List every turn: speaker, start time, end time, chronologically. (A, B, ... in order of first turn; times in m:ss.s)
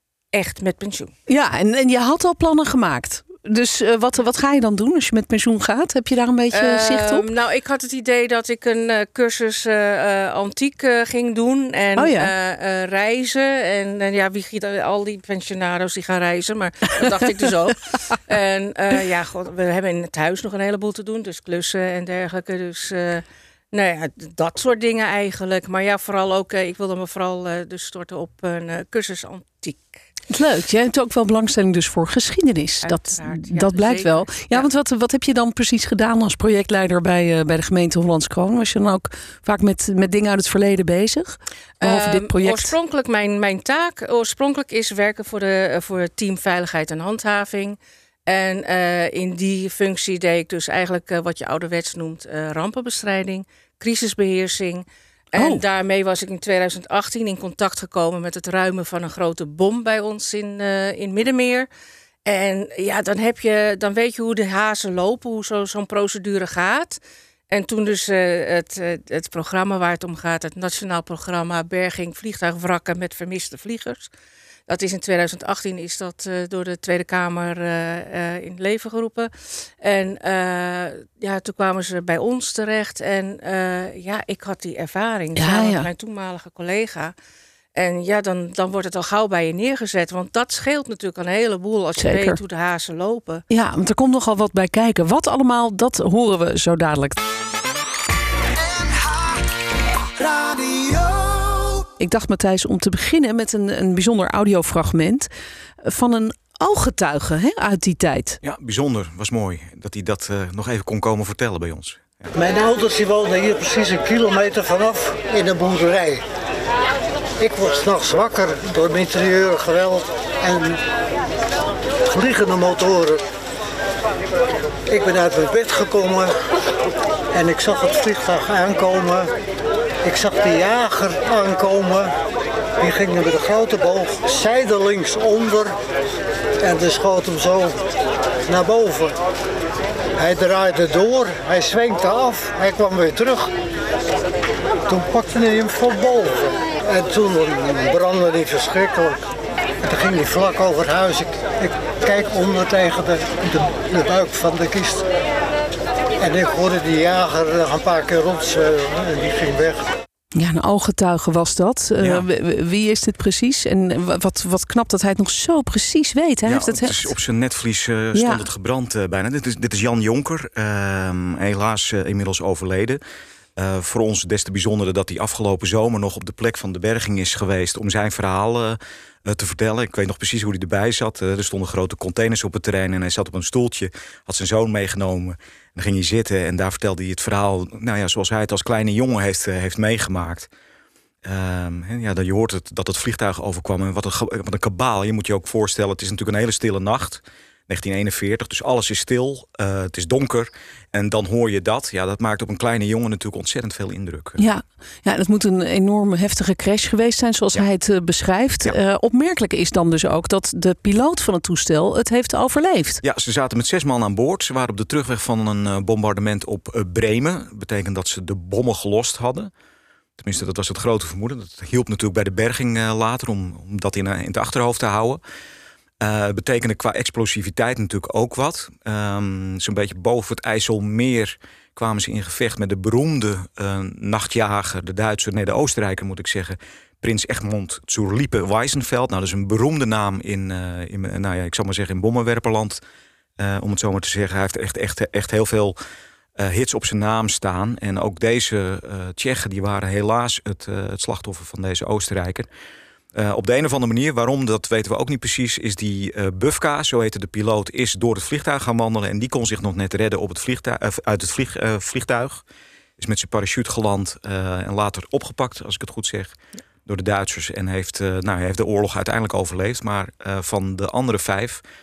0:00.3-0:01.1 A
0:01.3-0:07.2 B
0:06.5-0:30.0 A
0:12.0-0:12.3 B
0:30.3-0:42.8 B
0:32.8-0:34.7 A
0:41.8-1:01.7 A
0:55.4-0:55.6 B
1:02.3-1:14.1 A
1:14.7-1:27.2 A
1:25.4-1:25.9 B
1:27.8-1:33.4 A
1:32.0-1:32.4 B
1:33.5-1:37.2 B
1:41.8-1:45.3 B
1:45.8-1:48.4 B
1:48.4-1:52.3 C
1:52.4-1:56.2 D
1:57.4-2:00.8 D
2:02.1-2:03.2 D
2:04.9-2:06.3 D
2:07.3-2:09.3 D
2:10.0-2:12.1 D
2:12.8-2:15.8 D
2:16.6-2:17.8 D
2:18.5-2:19.2 D
2:20.2-2:23.5 D
2:24.9-2:29.2 D
2:29.8-2:35.1 D
2:36.2-2:39.9 D
2:40.4-2:47.2 B
2:42.0-2:42.3 C
2:46.5-2:53.0 C
2:48.1-2:48.5 B
2:53.6-3:10.5 C
3:11.2-3:24.4 C
3:24.4-3:33.0 B
3:33.0-3:39.5 C
3:40.2-3:45.2 C
3:46.0-4:02.8 C
4:03.4-4:05.8 C
4:06.4-4:12.5 C
4:13.2-4:22.4 C
4:23.0-4:26.3 C
4:26.9-4:31.6 C